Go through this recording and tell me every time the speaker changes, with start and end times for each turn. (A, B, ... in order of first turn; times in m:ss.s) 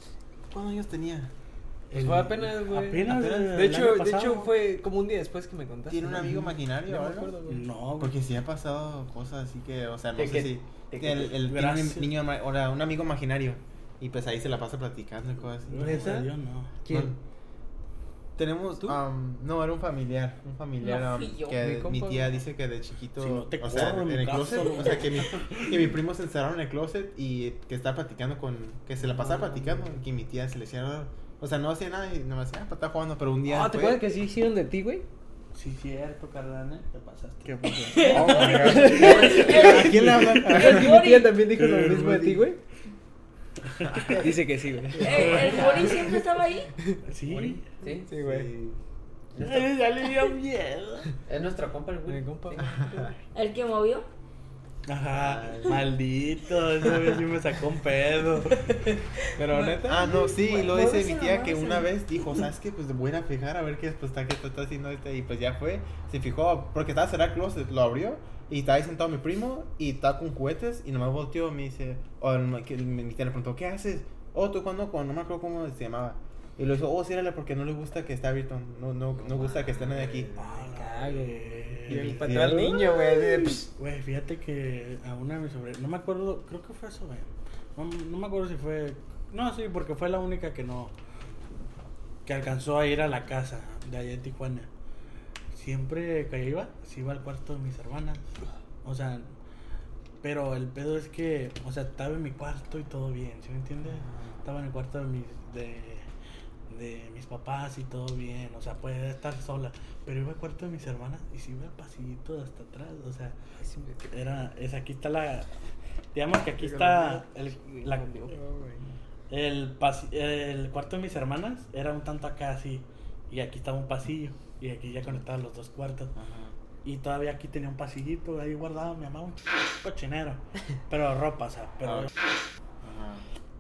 0:00.5-0:01.3 A
0:01.9-0:04.5 B
0:01.9-0:07.6 C
0:05.9-0:07.3 A
0:06.1-0:06.6 B
0:07.3-0:08.2 B
0:08.0-0:16.2 A
0:10.2-0:11.4 D
0:11.4-0:12.2 B
0:15.7-0:16.8 B
0:15.8-0:16.3 C
0:16.8-0:17.1 C
0:16.9-0:17.2 A
0:18.4-0:34.0 A
0:20.8-0:22.4 C
0:23.2-0:26.0 B
0:29.0-0:30.0 B
0:33.5-0:35.1 C
0:35.5-0:39.0 B
0:37.8-0:41.3 E
0:37.9-0:40.9 A
0:38.0-0:42.6 C
0:41.5-0:42.4 B
0:43.8-0:44.4 A
0:43.9-0:44.1 B
0:44.2-0:45.7 C
0:45.0-0:45.8 A
0:45.0-0:46.7 E
0:45.1-0:45.4 B
0:45.3-0:46.1 D
0:47.1-0:47.6 B
0:47.3-0:48.1 D
0:48.1-0:48.5 C
0:48.2-0:48.8 A
0:49.3-0:49.7 D
0:49.4-0:51.1 B
0:51.3-0:53.1 D
0:52.1-0:52.6 C
0:52.6-0:53.1 A
0:53.3-0:54.1 E
0:54.9-0:58.9 B
0:55.1-0:55.8 A
0:59.3-1:00.3 C
0:59.6-1:02.4 E
0:59.8-1:20.6 A
1:19.3-1:19.8 D
1:20.4-1:22.9 B
1:20.7-1:23.7 C
1:21.9-1:22.8 A
1:23.5-1:30.9 B
1:32.2-1:34.7 B
1:35.5-1:38.3 B
1:38.8-1:39.3 B
1:40.2-1:46.1 B
1:46.7-1:53.4 B
1:53.6-1:54.1 C
1:54.1-1:55.5 B
1:56.1-1:58.1 B
1:56.6-1:58.7 C
1:59.3-2:06.1 B
2:06.2-2:06.6 A
2:06.8-2:12.1 B
2:11.8-2:12.1 A
2:12.8-2:13.2 A